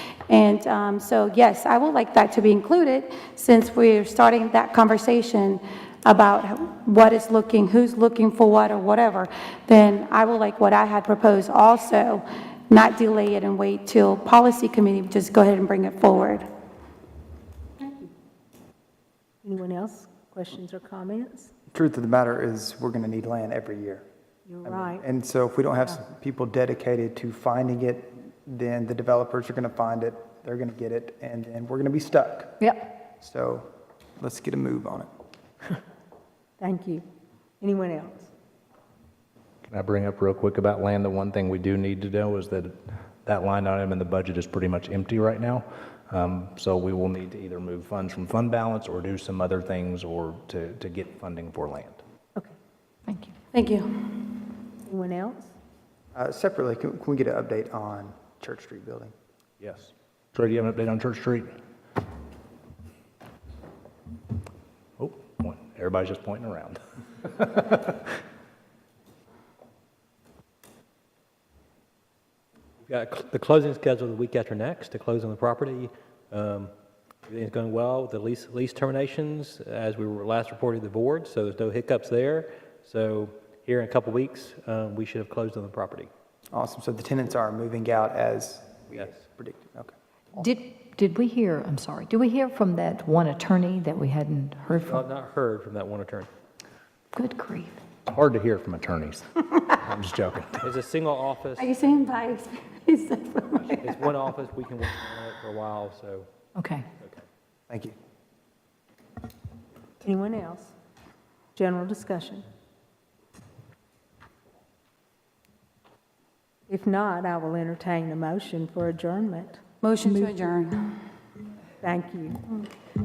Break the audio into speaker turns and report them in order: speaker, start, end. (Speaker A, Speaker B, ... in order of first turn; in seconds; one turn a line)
Speaker A: 0.3-16.4
Speaker B: 19.4-21.5
Speaker C: 21.7-24.0
Speaker B: 24.5-25.0
Speaker C: 24.6-32.7
Speaker C: 33.2-35.1
Speaker B: 36.6-37.0
Speaker B: 37.6-38.3
Speaker D: 39.7-42.7
Speaker D: 43.2-52.0
Speaker E: 53.1-53.3
Speaker A: 53.5-54.2
Speaker B: 54.9-55.5
Speaker C: 56.1-59.1
Speaker D: 59.6-61.5
Speaker D: 65.0-68.2
Speaker F: 72.8-76.7
Speaker F: 77.3-86.1
Speaker C: 86.5-89.9
Speaker F: 88.9-89.2
Speaker E: 90.3-95.0
Speaker F: 94.7-96.3
Speaker E: 97.1-97.8
Speaker D: 98.1-100.6
Speaker F: 100.6-101.8
Speaker A: 101.6-104.0
Speaker F: 103.8-106.3
Speaker E: 106.5-106.9
Speaker C: 107.7-107.9
Speaker B: 110.0-110.7
Speaker B: 111.5-112.4
Speaker B: 116.7-120.4
Speaker A: 119.8-121.0
Speaker B: 121.8-122.7